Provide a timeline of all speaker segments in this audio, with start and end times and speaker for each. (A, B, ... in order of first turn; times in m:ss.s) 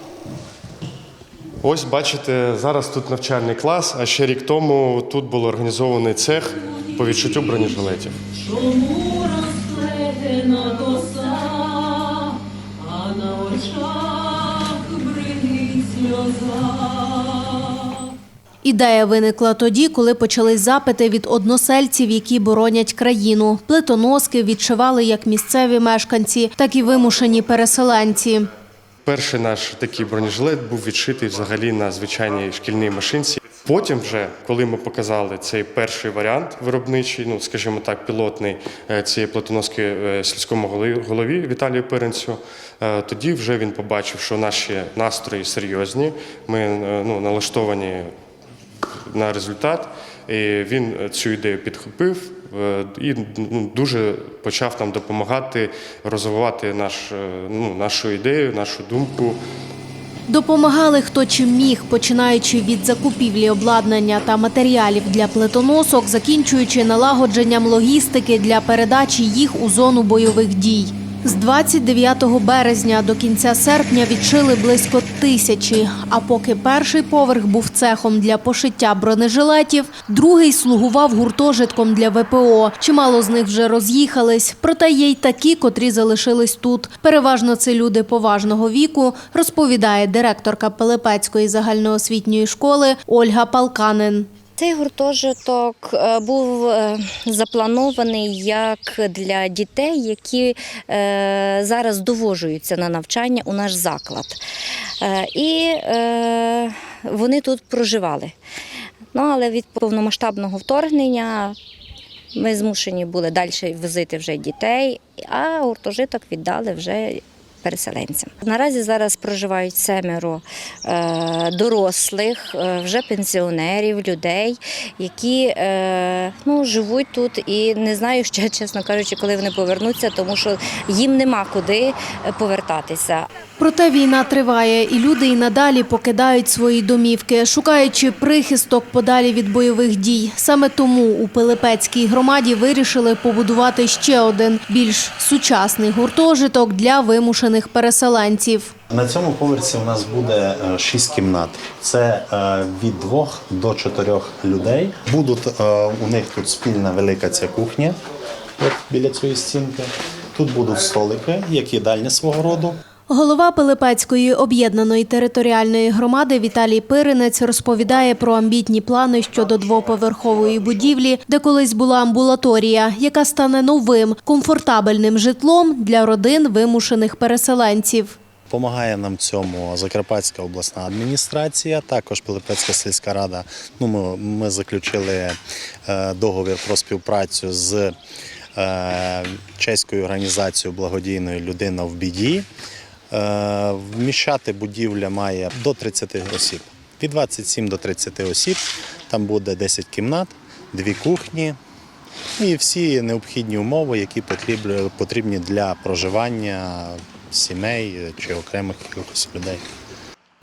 0:01.6-0:08.2 A
0:08.4-0:18.0 B
0:18.6-0:28.5 C
0:29.1-0:48.1 A
0:49.1-0:59.4 A
1:00.3-1:34.3 C
1:34.6-1:44.4 D
1:45.0-1:48.4 D
1:49.1-1:51.6 D
1:52.3-2:13.3 D
2:13.6-2:28.7 C
2:28.9-2:38.0 E
2:38.6-2:42.8 E
2:43.1-2:58.2 C
2:58.5-3:08.0 E
3:08.6-3:12.5 E
3:13.1-3:21.6 E
3:22.4-3:29.6 E